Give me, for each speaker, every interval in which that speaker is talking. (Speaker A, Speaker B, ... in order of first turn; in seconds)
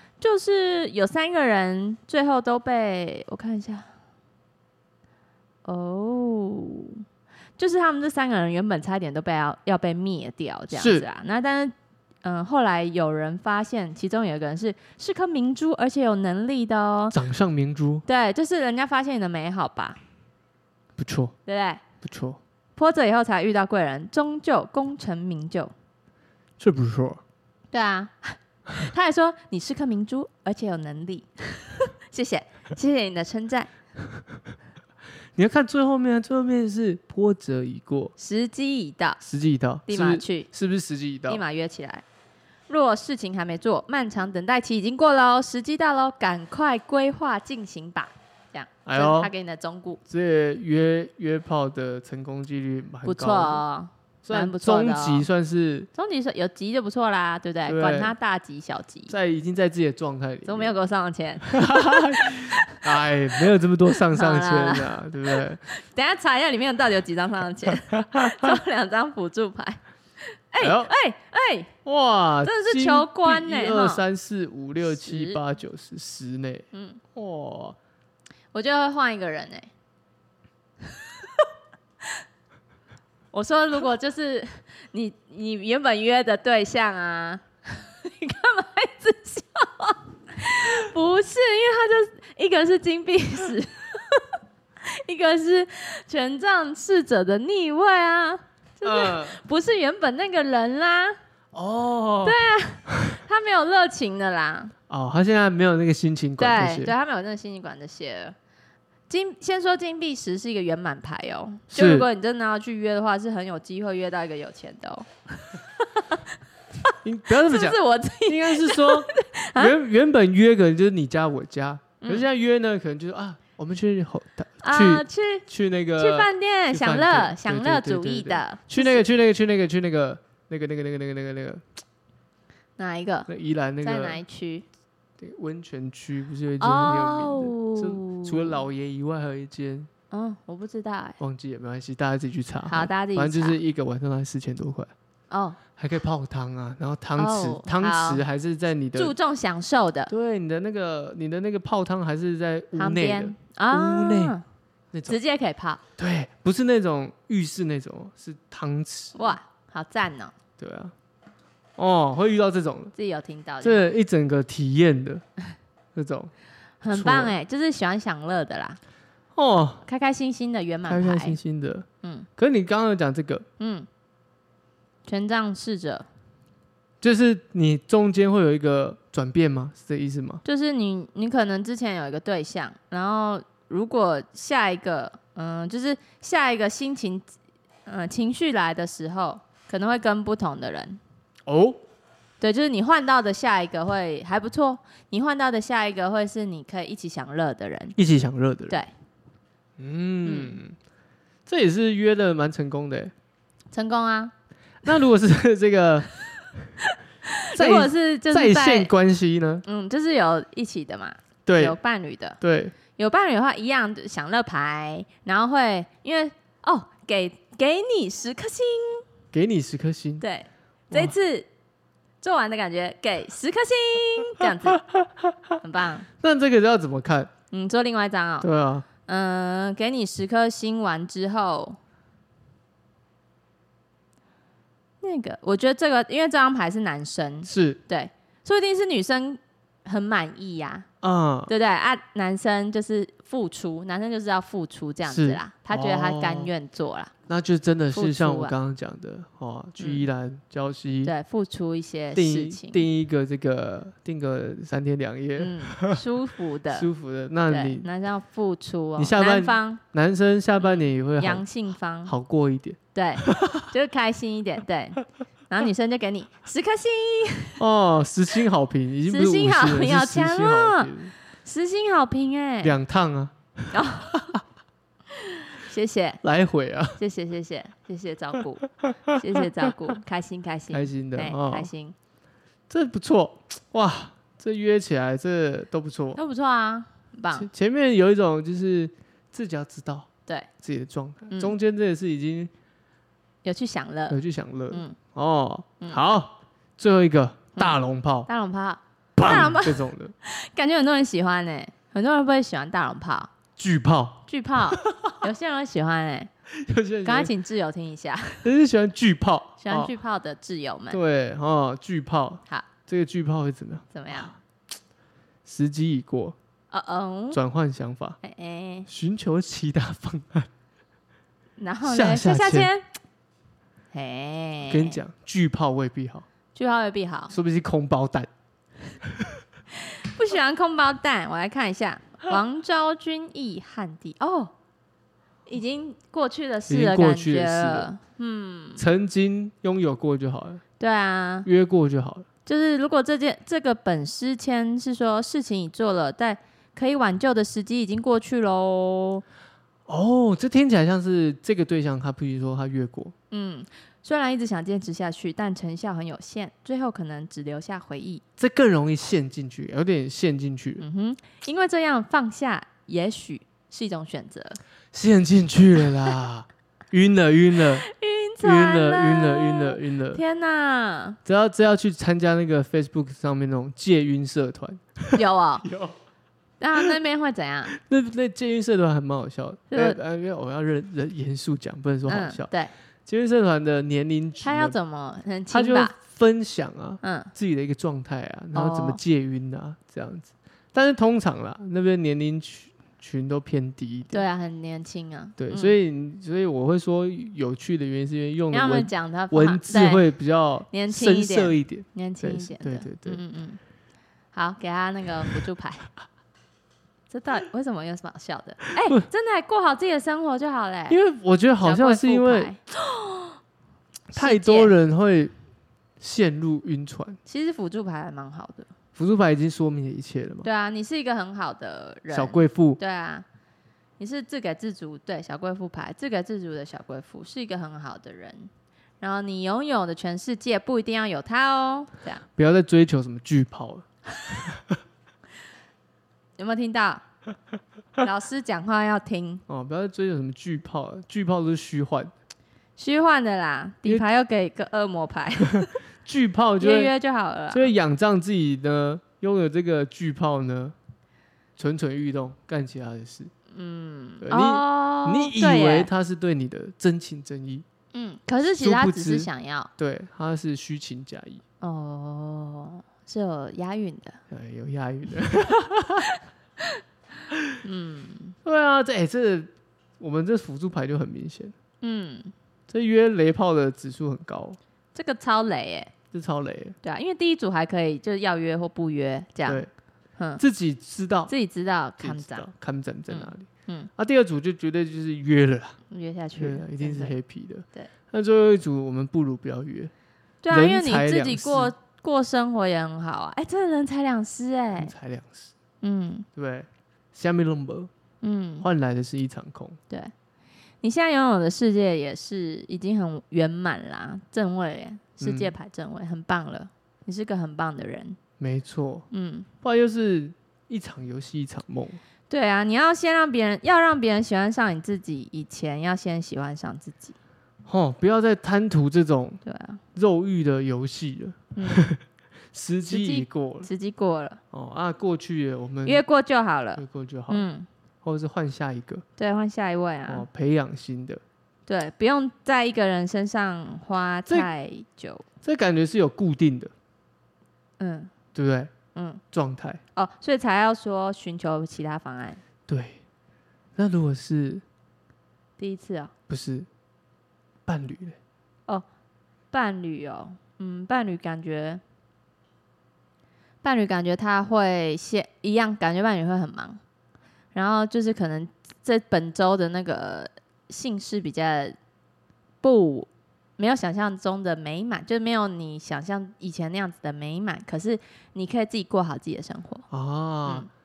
Speaker A: 0.2-3.9, 5.7-7.0, 7.6-17.1, 18.1-20.0, 21.5-21.8, 22.8-25.7, 27.7-33.7, 38.2-39.2, 39.9-40.5, 41.3-42.0, 42.7-50.0, 53.0-55.3, 56.0-59.1, 60.5-63.0, 64.0-69.8, 70.3-71.7, 72.5-74.0, 74.8-75.4, 76.7-77.0, 78.5-79.7, 80.9-81.4, 83.3-101.2, 102.2-104.7, 106.4-108.4, 109.1-116.2, 116.9-119.7, 122.0-122.3, 124.6-125.5, 126.0-129.0, 132.8-133.3, 133.8-134.7, 136.6-138.6, 140.1-141.2, 142.7-143.6, 145.3-145.6, 147.2-148.2, 149.0-150.1, 152.8-154.4, 155.1-155.8, 159.2-160.3, 163.0-163.9, 166.8-168.8, 169.9-171.4, 172.0-172.3, 173.6-173.9, 175.1-176.1, 180.4-187.3, 187.9-191.0, 192.4-197.9, 200.2-200.6, 203.7-204.3, 206.9-208.9, 209.7-212.4, 212.9-219.1, 220.2-221.5, 222.2-224.8, 225.6-226.1, 227.5-228.5, 229.0-231.8, 235.0-240.9, 241.5-247.1, 247.9-248.5, 249.8-250.1, 251.1-252.8, 255.4-256.9, 257.5-259.8, 260.6-262.1, 262.9-267.6, 269.1-270.9, 271.4-272.8, 273.7-274.2, 275.1-276.2, 277.0-281.9, 286.2-287.5, 293.4-294.2, 294.7-295.0, 297.6-303.3, 304.3-306.3, 307.1-308.4, 309.6-311.0, 313.9-314.3, 316.7-317.4, 318.2-318.9, 321.6-322.8, 323.9-325.0, 326.6-327.3, 329.7-334.5, 335.5-338.8, 340.8-341.5, 342.5-349.2, 353.3-358.2, 360.8-364.6, 367.6-371.2, 375.1-375.7, 376.6-377.7, 379.7-380.0, 382.1-382.7, 384.4-385.9, 387.0-387.3, 388.6-389.0, 394.1-395.8, 398.5-400.1, 400.7-403.6, 404.3-405.9, 407.1-411.0, 411.6-413.4, 414.1-414.7, 417.3-418.7, 420.4-423.3, 424.0-432.2, 436.4-437.0, 438.0-439.4, 442.8-445.8, 446.6-447.7, 453.5-455.9, 457.9-459.7, 461.6-464.2, 467.6-468.4, 471.8-472.3, 474.9-475.9, 476.8-479.6, 481.3-482.5, 483.1-483.9, 485.9-487.1, 490.4-494.9, 495.8-496.3, 498.2-498.7, 500.8-508.2, 509.1-509.5, 512.3-517.1, 519.5-519.8, 521.6-521.9, 522.9-524.4, 525.9-527.7, 529.2-530.3, 531.7-535.2, 537.8-538.1, 539.0-539.2, 540.0-542.4, 545.6-546.1, 549.5-551.8, 553.6-556.8, 557.5-561.8, 562.6-569.8
Speaker B: 10.7-11.1, 17.1-18.1, 21.0-21.4, 22.0-22.4, 26.6-27.2, 35.4-38.1, 39.2-41.4, 48.9-49.3, 50.1-53.6, 54.2-55.9, 57.6-58.1, 59.1-60.7, 61.5-65.6, 67.8-68.5, 70.6-70.9, 71.8-77.8, 98.8-99.4, 101.5-102.4, 102.9-103.2, 104.9-107.0, 111.7-112.1, 117.0-131.6, 133.3-134.2, 135.2-139.9, 141.2-144.9, 145.8-149.1, 150.1-154.4, 156.0-159.4, 160.6-160.9, 161.8-162.9, 163.6-165.2, 165.9-166.3, 166.9-167.3, 169.4-169.8, 170.9-171.9, 172.4-173.5, 177.0-180.4, 191.5-191.8, 198.0-198.8, 199.8-200.8, 201.5-203.1, 204.8-206.1, 207.5-209.7, 211.5-211.8, 212.4-212.7, 219.3-220.2, 224.4-225.6, 226.2-227.3, 228.4-228.9, 237.4-237.8, 241.0-241.5, 245.1-246.5, 247.3-251.1, 252.1-256.0, 256.7-257.9, 259.0-261.4, 262.1-263.7, 267.6-271.1, 272.6-274.4, 276.2-277.0, 280.7-281.7, 282.7-286.2, 287.3-290.1, 290.6-292.5, 294.1-298.3, 299.2-300.1, 303.6-305.2, 306.6-307.3, 308.4-309.9, 310.9-314.4, 315.4-316.4, 317.3-318.2, 318.9-320.5, 321.9-322.7, 324.7-326.3, 327.3-328.3, 336.7-337.9, 338.8-340.6, 341.4-342.3, 349.9-353.1, 358.4-360.8, 364.9-367.9, 368.4-370.2, 371.2-375.9, 377.7-382.5, 383.1-384.8, 385.5-394.2, 395.4-403.2, 410.9-412.5, 414.1-415.3, 416.0-417.2, 419.0-420.5, 422.1-422.8, 432.4-434.8, 439.5-442.1, 445.6-446.9, 447.5-450.8, 451.6-453.3, 454.2-457.7, 458.6-461.4, 464.3-466.1, 468.4-471.5, 472.7-474.6, 476.1-476.8, 480.4-481.3, 482.0-485.8, 486.4-489.9, 490.5-491.7, 494.8-495.5, 496.4-497.9, 498.6-499.8, 505.2-505.5, 508.4-509.1, 509.6-512.0, 517.7-519.4, 519.9-522.0, 522.5-523.7, 524.5-526.0, 526.8-527.5, 528.0-529.0, 530.1-531.2, 535.4-536.7, 538.3-538.7, 539.3-539.8, 542.7-543.0, 543.8-544.6, 546.3-546.7, 547.7-548.2, 569.9-570.7